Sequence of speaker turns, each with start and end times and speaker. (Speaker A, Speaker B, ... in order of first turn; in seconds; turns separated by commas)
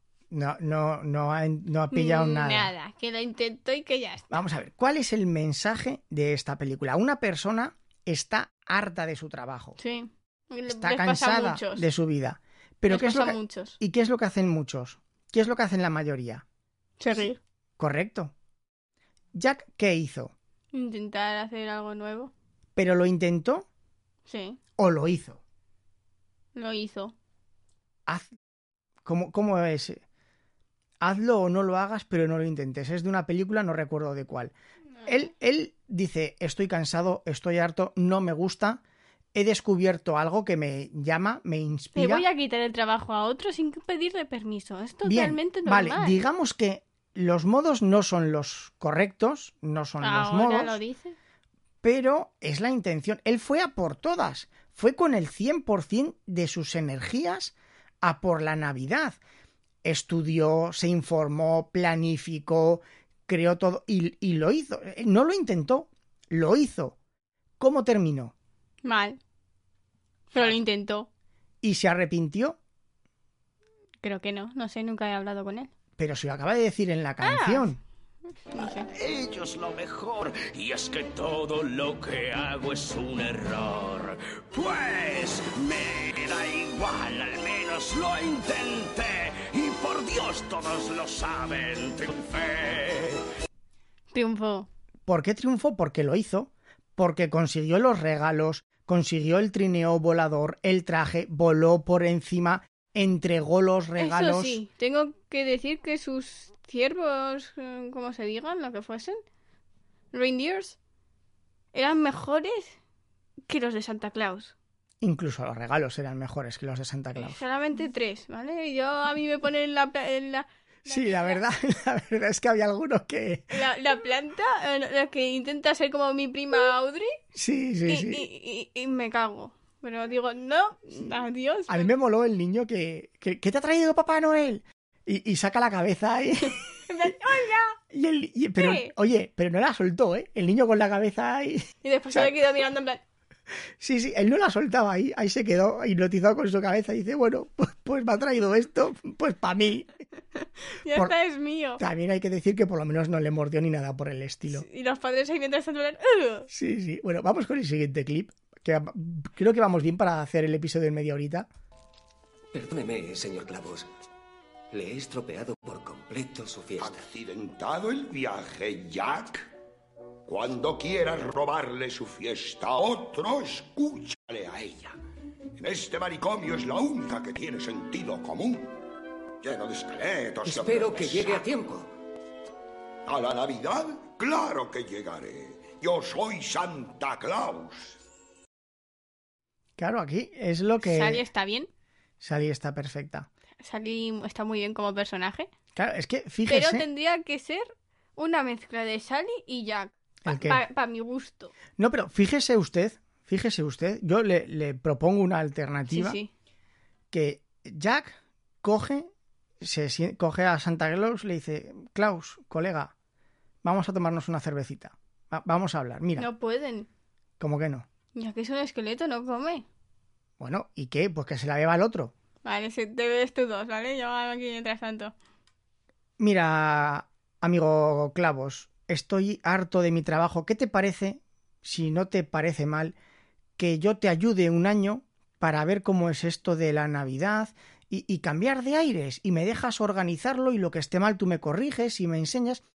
Speaker A: 0.3-2.7, Speaker B: 1.9-4.4, Speaker A: 4.3-9.8, Speaker B: 9.8-11.9, Speaker A: 10.7-16.4, Speaker B: 12.9-13.8, Speaker B: 17.0-17.4, Speaker A: 17.8-18.3, Speaker A: 19.3-20.3, Speaker B: 20.7-22.3, Speaker A: 22.8-23.6, Speaker B: 24.3-24.6, Speaker A: 24.8-25.4, Speaker B: 26.5-27.1, Speaker A: 29.0-30.0, Speaker A: 31.0-34.5, Speaker A: 35.0-38.8, Speaker A: 39.3-42.3, Speaker B: 42.0-46.2, Speaker A: 45.0-50.8, Speaker B: 50.0-51.1, Speaker A: 51.8-59.2, Speaker A: 59.8-67.0, Speaker A: 67.6-68.3, Speaker B: 68.8-69.2, Speaker B: 70.3-71.1, Speaker A: 71.6-72.6, Speaker B: 74.0-75.7, Speaker A: 76.0-77.8, Speaker B: 77.2-77.7, Speaker B: 78.5-78.9, Speaker C: 78.9-93.2, Speaker B: 94.1-94.7, Speaker A: 95.1-104.6, Speaker B: 104.0-109.2, Speaker B: 110.1-110.8, Speaker B: 111.7-112.8, Speaker B: 113.5-114.5, Speaker A: 115.0-117.4, Speaker B: 117.2-121.4, Speaker A: 120.9-123.6, Speaker B: 123.5-127.2, Speaker A: 127.3-128.3, Speaker B: 127.9-131.9, Speaker A: 131.7-136.6, Speaker B: 136.9-137.8, Speaker A: 137.9-142.4, Speaker B: 138.6-138.9, Speaker B: 141.8-143.0, Speaker A: 143.8-149.9, Speaker B: 150.8-151.8, Speaker A: 151.8-154.7, Speaker B: 154.5-156.5, Speaker A: 156.5-161.4, Speaker D: 162.5-163.9, Speaker D: 164.7-167.1, Speaker E: 166.8-169.5, Speaker E: 170.2-174.9, Speaker E: 175.6-178.8, Speaker E: 179.4-181.4, Speaker D: 180.4-181.9, Speaker E: 183.0-188.0, Speaker A: 189.8-191.2, Speaker B: 190.8-191.7, Speaker A: 192.2-193.3, Speaker B: 193.6-195.5, Speaker A: 195.8-196.8, Speaker B: 196.5-201.5, Speaker A: 200.2-200.6, Speaker A: 201.8-206.2, Speaker B: 205.9-206.3, Speaker A: 207.1-209.1, Speaker A: 209.6-212.9, Speaker A: 213.6-216.3, Speaker B: 216.2-216.9, Speaker A: 217.4-217.8, Speaker B: 218.1-219.6, Speaker A: 220.4-222.1, Speaker B: 222.4-225.1, Speaker A: 226.2-232.9, Speaker A: 233.6-242.6